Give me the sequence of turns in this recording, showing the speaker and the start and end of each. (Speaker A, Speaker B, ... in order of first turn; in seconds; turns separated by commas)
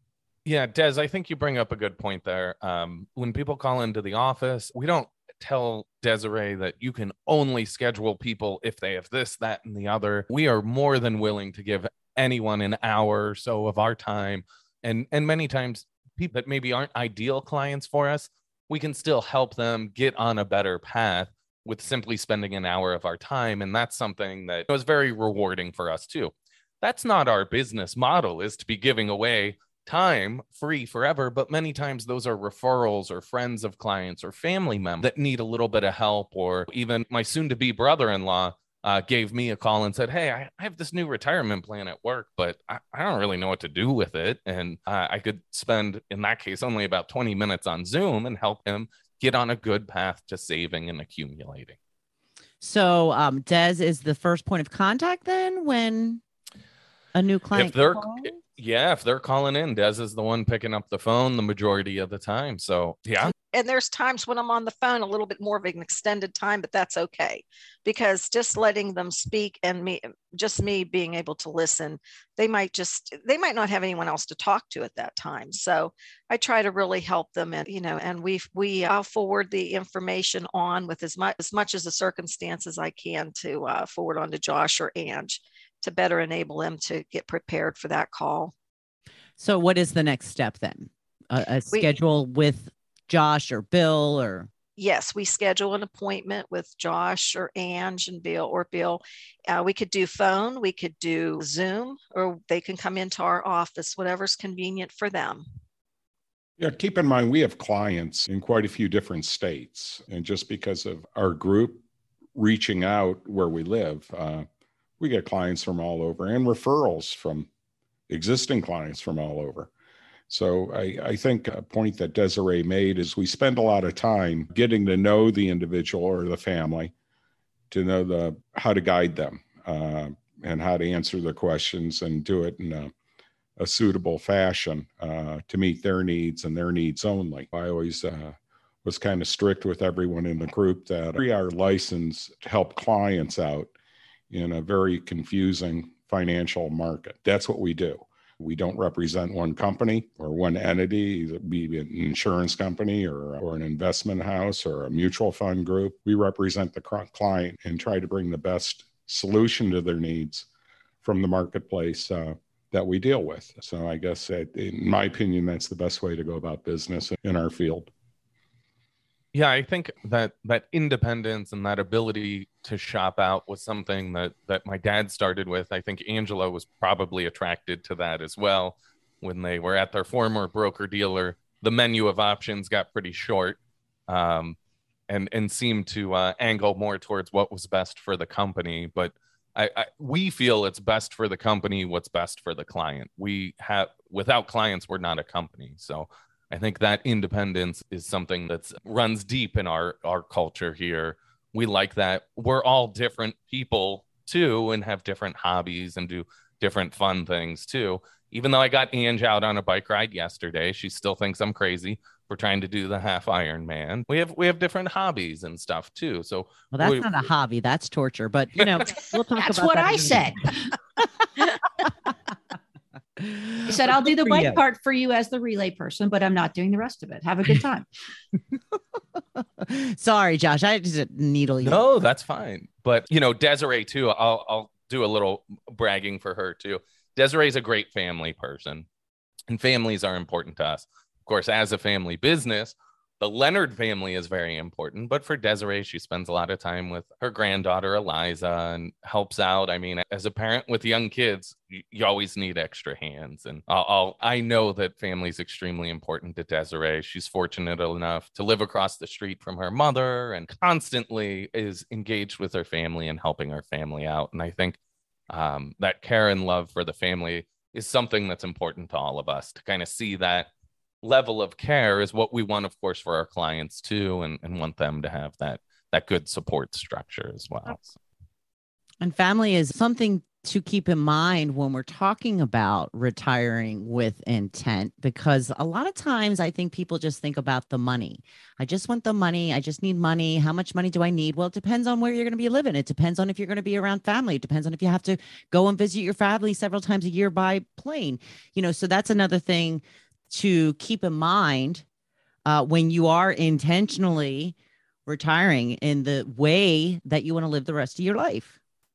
Speaker A: 0.5-51.8, Speaker B: 52.6-56.2, Speaker B: 57.1-58.3, Speaker A: 57.5-63.3, Speaker C: 63.5-88.5, Speaker B: 89.4-94.5, Speaker C: 94.8-105.5, Speaker D: 106.6-111.8, Speaker D: 112.4-114.5, Speaker D: 115.0-117.5, Speaker D: 118.1-119.7, Speaker D: 120.3-126.9, Speaker D: 127.7-132.9, Speaker D: 133.6-143.7, Speaker D: 144.3-160.5, Speaker D: 161.0-167.9, Speaker A: 169.3-184.6, Speaker A: 185.1-217.1, Speaker B: 216.7-220.3, Speaker A: 218.6-218.9, Speaker E: 219.4-220.7, Speaker B: 221.4-222.1, Speaker B: 223.2-224.6, Speaker E: 223.7-227.9, Speaker B: 229.4-231.8, Speaker A: 231.6-238.9, Speaker A: 239.5-264.8, Speaker A: 265.3-270.5, Speaker A: 271.0-278.0, Speaker B: 279.0-301.9, Speaker B: 302.5-304.6, Speaker B: 305.1-308.6